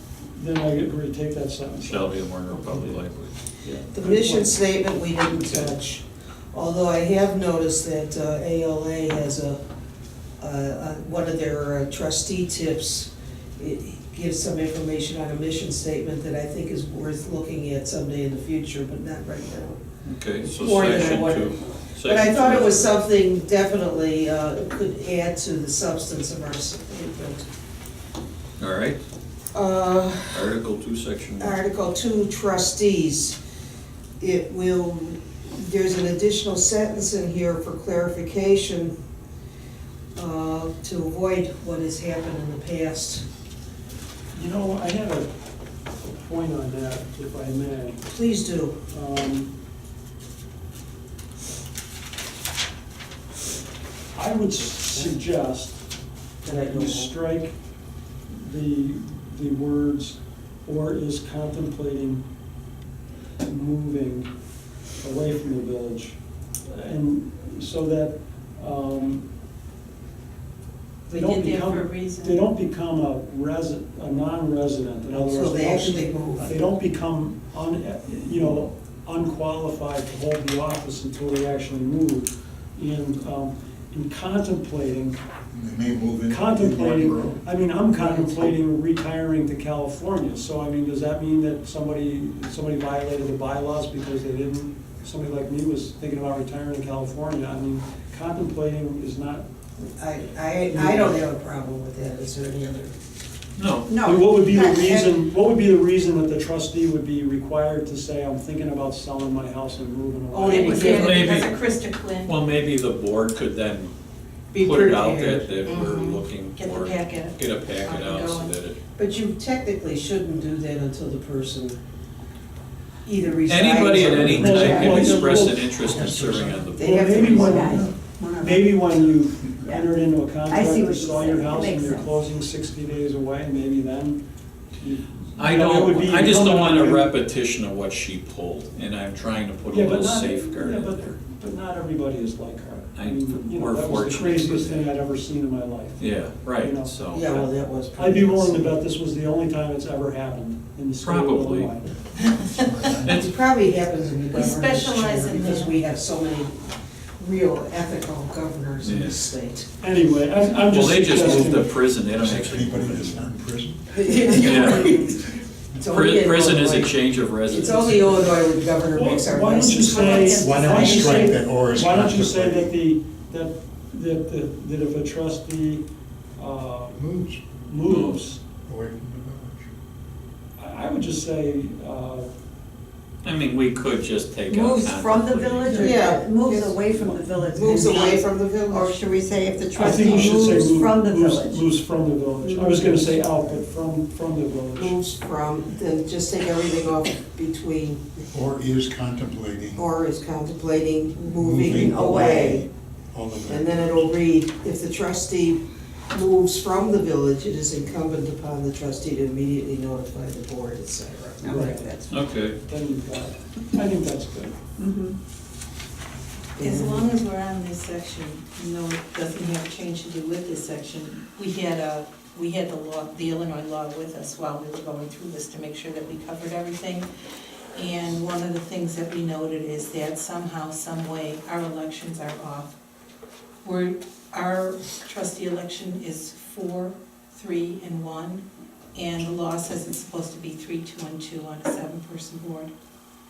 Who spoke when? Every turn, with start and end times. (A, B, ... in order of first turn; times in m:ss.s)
0:00.2-0:03.0 A
0:01.8-0:03.3 B
0:03.6-0:04.6 A
0:03.9-0:09.6 C
0:10.4-0:19.8 C
0:20.0-0:22.9 B
0:20.4-0:27.5 C
0:28.6-0:29.0 B
0:29.5-0:30.5 C
0:30.3-0:31.6 B
0:31.4-0:33.4 C
0:34.2-0:38.9 C
0:40.2-0:43.2 C
0:44.3-0:45.3 A
0:45.9-0:48.1 A
0:48.1-0:48.8 C
0:48.9-0:49.5 A
0:54.2-0:55.8 A
0:56.4-0:57.6 A
0:56.4-0:57.1 C
0:58.3-1:02.2 A
1:03.4-1:04.3 A
1:05.0-1:09.3 A
1:11.1-1:12.5 D
1:11.1-1:25.2 A
1:15.1-1:16.6 C
1:25.5-1:27.4 E
1:26.3-1:39.4 A
1:39.8-1:42.9 C
1:40.7-1:41.2 A
1:43.6-1:44.0 B
1:43.9-1:45.2 F
1:44.0-1:51.1 A
1:50.3-1:51.3 C
1:50.4-1:52.3 D
1:50.9-1:53.9 B
1:54.5-1:58.8 B
1:54.5-1:55.8 C
1:55.8-1:58.6 D
1:59.0-2:01.8 C
2:03.0-2:07.9 C
2:03.5-2:07.6 B
2:04.0-2:06.1 A
2:06.8-2:08.8 F
2:06.8-2:07.9 A
2:08.4-2:14.2 A
2:10.5-2:12.2 F
2:14.7-2:17.1 A
2:15.4-2:21.2 B
2:19.7-2:26.9 A
2:23.0-2:24.9 B
2:26.0-2:27.5 B
2:27.1-2:28.8 C
2:28.0-2:31.9 A
2:31.0-2:31.7 B
2:32.3-2:33.2 E
2:33.0-2:33.3 B
2:33.1-2:36.6 C
2:34.3-2:35.8 D
2:37.2-2:39.7 C
2:38.8-2:39.3 B
2:39.8-2:41.8 A
2:40.7-2:43.3 B
2:42.1-2:43.8 E
2:43.9-2:50.6 C
2:44.3-2:44.9 B
2:45.9-2:48.3 B
2:48.9-2:57.1 A
2:49.5-2:51.4 D
2:50.1-2:52.8 E
2:57.0-2:57.6 E
2:57.6-2:58.4 A
2:57.8-2:58.2 B
2:58.6-2:59.7 E
3:00.6-3:02.3 A
3:03.2-3:06.0 B
3:04.5-3:11.7 F
3:05.7-3:06.7 C
3:07.5-3:10.6 C
3:09.8-3:15.0 A
3:12.4-3:12.9 F
3:14.8-3:18.2 C
3:18.3-3:19.8 E
3:19.8-3:22.7 C
3:21.2-3:23.9 E
3:23.5-3:32.0 C
3:31.4-3:31.7 F
3:31.5-3:32.0 A
3:32.1-3:32.6 B
3:32.6-3:34.6 A
3:34.8-3:35.1 F
3:36.6-3:37.1 C
3:36.6-3:47.1 D
3:47.7-3:52.8 D
3:53.6-3:58.4 D
3:59.0-4:02.7 D